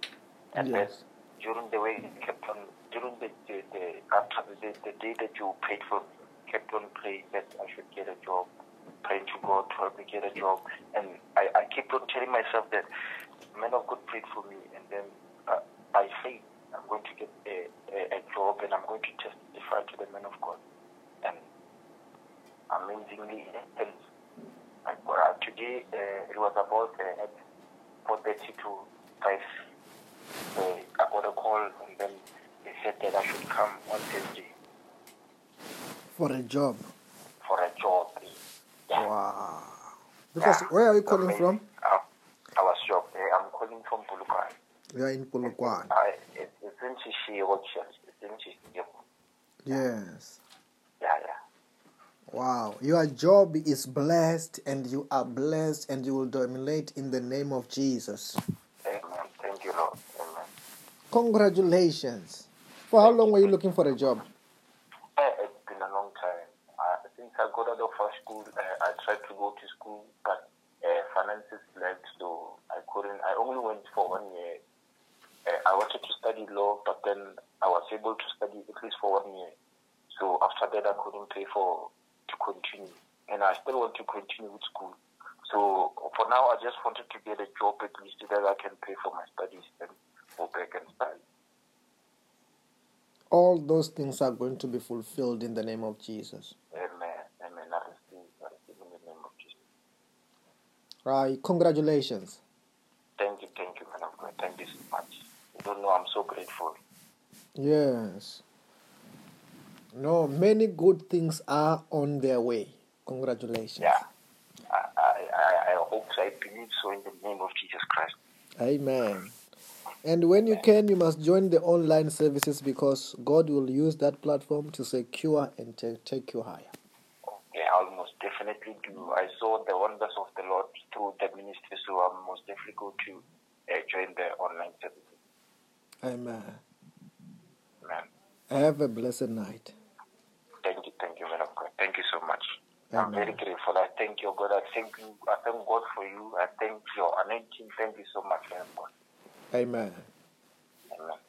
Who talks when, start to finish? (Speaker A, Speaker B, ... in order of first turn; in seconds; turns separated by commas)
Speaker A: 0.5-8.5, Speaker B: 0.6-1.0, Speaker A: 9.0-12.9, Speaker A: 13.5-20.6, Speaker A: 22.7-24.0, Speaker A: 24.8-27.3, Speaker A: 28.0-29.4, Speaker A: 30.5-34.5, Speaker B: 36.1-36.8, Speaker A: 37.4-39.1, Speaker B: 38.9-41.6, Speaker A: 40.4-42.0, Speaker A: 42.6-44.5, Speaker B: 44.9-45.9, Speaker A: 45.4-49.0, Speaker B: 49.6-50.4, Speaker A: 51.0-51.4, Speaker B: 52.3-58.4, Speaker A: 58.8-60.5, Speaker B: 61.1-64.2, Speaker A: 63.0-63.5, Speaker A: 65.2-74.6, Speaker A: 75.4-79.5, Speaker A: 80.1-91.2, Speaker B: 93.3-96.5, Speaker A: 96.7-99.6, Speaker B: 101.0-102.4, Speaker A: 103.2-106.8, Speaker B: 107.6-108.4, Speaker B: 109.9-114.0, Speaker A: 113.8-114.0, Speaker A: 114.7-118.1, Speaker B: 118.6-119.3, Speaker B: 120.0-126.7, Speaker A: 127.2-135.2, Speaker B: 136.0-136.6, Speaker A: 137.8-138.1, Speaker B: 138.5-139.7, Speaker A: 140.6-148.9, Speaker B: 142.9-143.4, Speaker B: 149.5-150.1, Speaker A: 150.9-151.2